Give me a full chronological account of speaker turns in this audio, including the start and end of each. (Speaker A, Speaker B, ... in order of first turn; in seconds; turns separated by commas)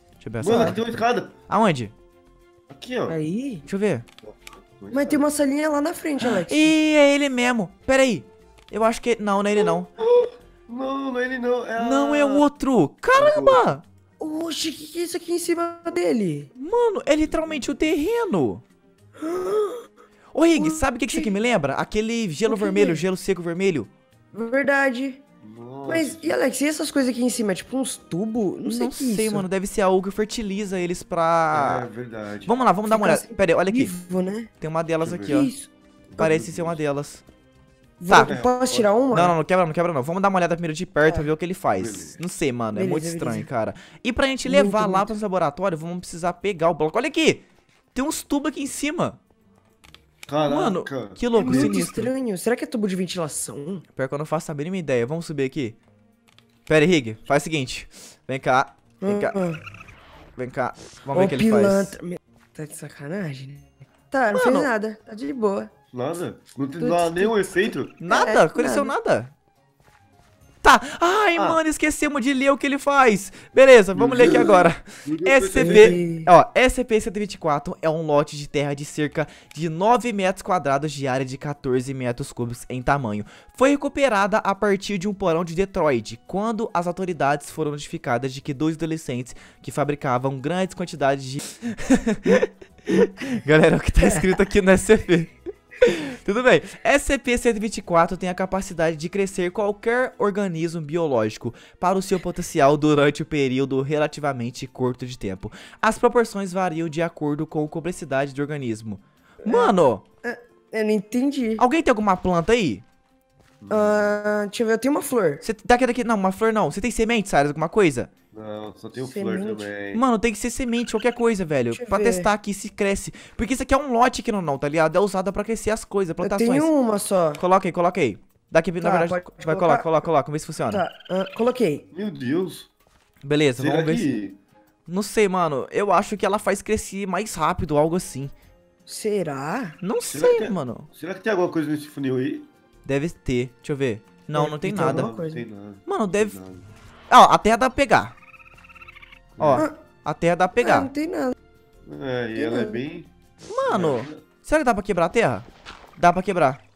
Speaker A: 0.2-1.9, Speaker B: 0.4-1.3, Speaker B: 2.7-3.2, Speaker C: 3.1-3.6, Speaker A: 3.7-4.0, Speaker B: 4.3-5.3, Speaker C: 4.9-6.8, Speaker A: 6.2-9.9, Speaker B: 9.6-12.4, Speaker A: 11.8-13.8, Speaker B: 13.2-13.8, Speaker C: 14.2-16.5, Speaker A: 16.6-18.6, Speaker C: 19.2-19.9, Speaker A: 20.3-23.9, Speaker C: 20.6-21.3, Speaker C: 22.4-23.0, Speaker C: 24.3-25.2, Speaker B: 25.4-26.3, Speaker C: 25.9-29.5, Speaker A: 28.7-31.9, Speaker B: 31.5-32.6, Speaker A: 32.5-33.9, Speaker C: 32.9-34.5, Speaker A: 34.6-35.5, Speaker B: 35.0-35.4, Speaker C: 35.3-35.7, Speaker B: 36.1-36.8, Speaker A: 36.2-37.2, Speaker C: 38.0-39.4, Speaker A: 38.1-38.3, Speaker B: 38.2-38.9, Speaker A: 39.1-47.4, Speaker B: 41.7-42.2, Speaker C: 42.7-43.5, Speaker C: 44.5-45.1, Speaker A: 47.9-49.2, Speaker B: 50.3-51.8, Speaker A: 50.5-52.1, Speaker C: 51.3-53.8, Speaker A: 54.0-55.8, Speaker A: 56.7-59.4, Speaker C: 59.0-59.6, Speaker A: 60.4-62.0, Speaker C: 61.1-65.7, Speaker A: 64.3-64.7, Speaker B: 65.9-68.0, Speaker C: 66.8-68.9, Speaker A: 68.0-69.3, Speaker A: 70.6-110.0, Speaker B: 73.9-76.0, Speaker C: 75.6-76.3, Speaker C: 109.4-111.6, Speaker A: 111.6-112.8, Speaker B: 113.6-114.2, Speaker C: 113.7-115.4, Speaker A: 115.4-118.1, Speaker B: 118.3-120.0, Speaker C: 119.0-119.7, Speaker A: 119.9-126.7, Speaker C: 121.7-122.3, Speaker C: 126.2-127.4, Speaker A: 127.4-130.8, Speaker C: 128.8-129.9, Speaker C: 130.7-131.8, Speaker B: 131.9-132.7, Speaker A: 133.2-134.1, Speaker B: 133.6-134.4, Speaker A: 134.9-138.3, Speaker C: 138.9-139.8, Speaker A: 139.8-140.9, Speaker B: 140.1-142.5, Speaker A: 142.8-145.1, Speaker C: 144.3-145.4, Speaker B: 144.8-146.7, Speaker A: 145.9-146.4, Speaker A: 147.1-148.1, Speaker B: 149.4-149.7, Speaker A: 149.4-150.9, Speaker C: 150.6-151.3, Speaker B: 151.9-154.2, Speaker C: 152.4-152.8, Speaker A: 153.5-155.5, Speaker A: 156.0-156.6